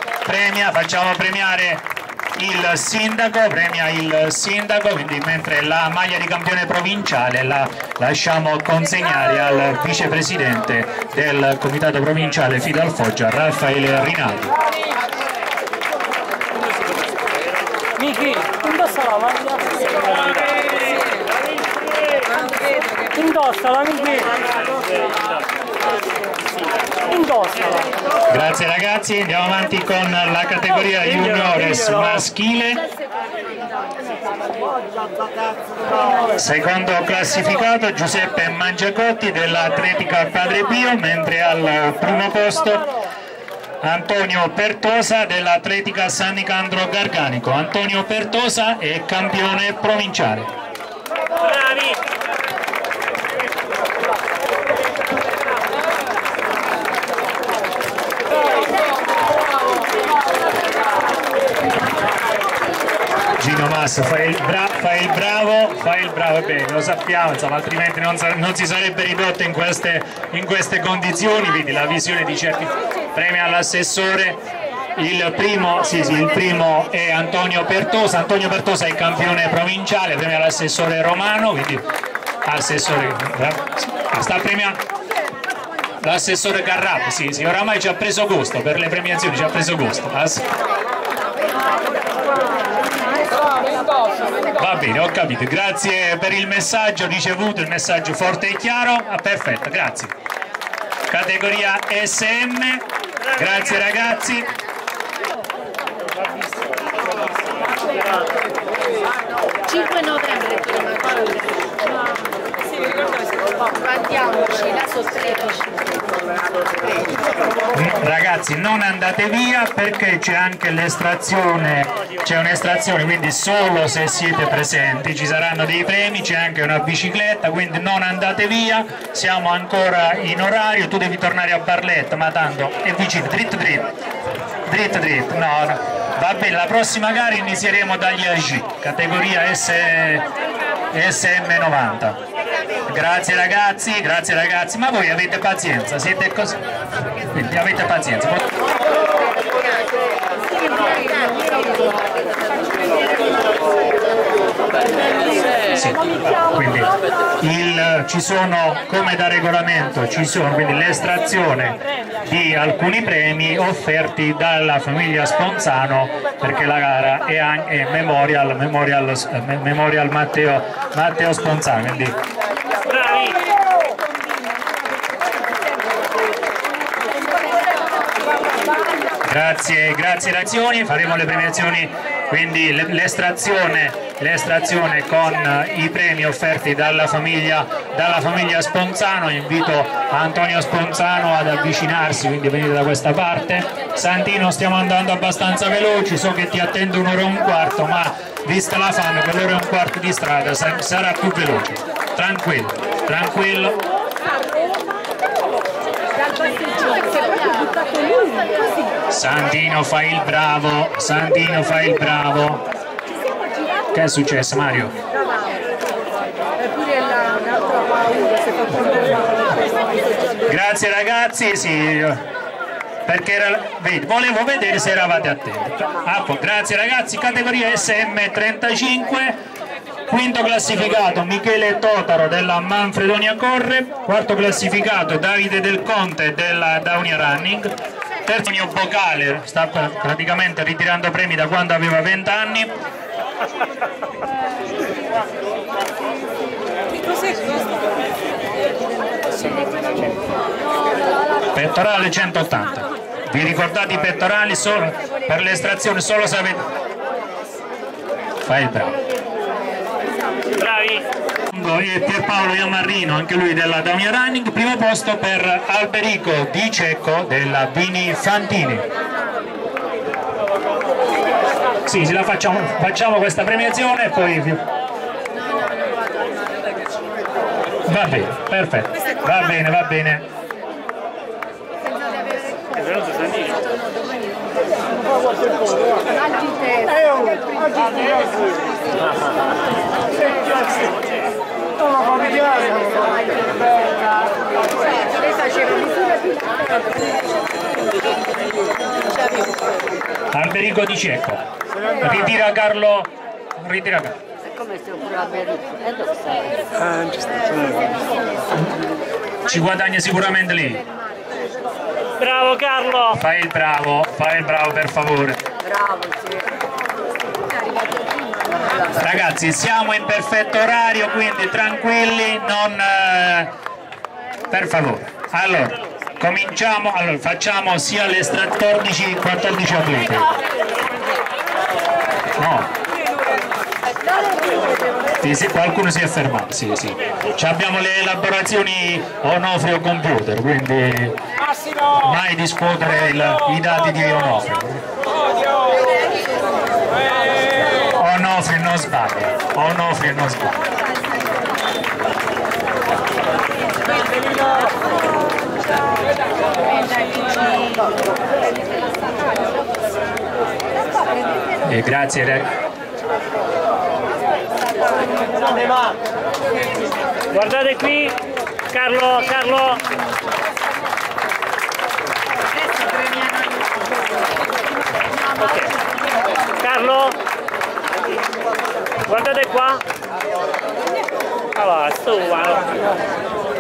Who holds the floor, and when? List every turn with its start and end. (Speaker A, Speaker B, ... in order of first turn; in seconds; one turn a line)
Speaker A: 0.2-14.5
Speaker B: 18.0-20.8
Speaker B: 22.3-25.3
Speaker B: 27.0-28.0
Speaker A: 28.3-32.9
Speaker A: 36.3-42.9
Speaker A: 43.8-50.5
Speaker B: 51.4-52.0
Speaker A: 63.4-74.4
Speaker A: 75.0-81.8
Speaker A: 82.5-84.8
Speaker A: 86.0-90.5
Speaker A: 94.5-100.1
Speaker A: 101.1-104.5
Speaker C: 110.0-111.0
Speaker C: 114.2-115.5
Speaker A: 117.7-133.9
Speaker A: 134.7-140.3
Speaker A: 140.9-142.2
Speaker A: 142.9-146.6
Speaker A: 147.3-148.5
Speaker A: 155.7-172.2
Speaker B: 172.8-173.5
Speaker A: 179.2-203.8
Speaker A: 209.1-212.6
Speaker A: 213.9-215.0
Speaker A: 220.4-222.2
Speaker A: 223.1-229.4
Speaker A: 230.1-237.7
Speaker A: 238.3-242.7
Speaker B: 249.5-249.8
Speaker A: 251.5-256.6
Speaker A: 258.4-259.0
Speaker B: 260.6-261.1
Speaker A: 261.5-268.9
Speaker A: 271.9-274.6
Speaker A: 277.9-280.2
Speaker B: 282.7-283.7
Speaker A: 300.3-301.4
Speaker A: 302.0-304.2
Speaker C: 304.5-306.5
Speaker B: 306.9-307.9
Speaker A: 309.4-310.8
Speaker B: 312.2-313.1
Speaker A: 313.1-315.4
Speaker C: 315.7-316.4
Speaker A: 318.9-323.5
Speaker A: 324.5-330.3
Speaker A: 332.4-332.7
Speaker A: 335.2-341.2
Speaker A: 341.9-344.8
Speaker A: 348.0-350.6
Speaker A: 361.7-362.5
Speaker B: 367.3-369.9
Speaker B: 375.2-375.9
Speaker B: 376.5-377.2
Speaker B: 379.1-379.9
Speaker B: 381.6-382.9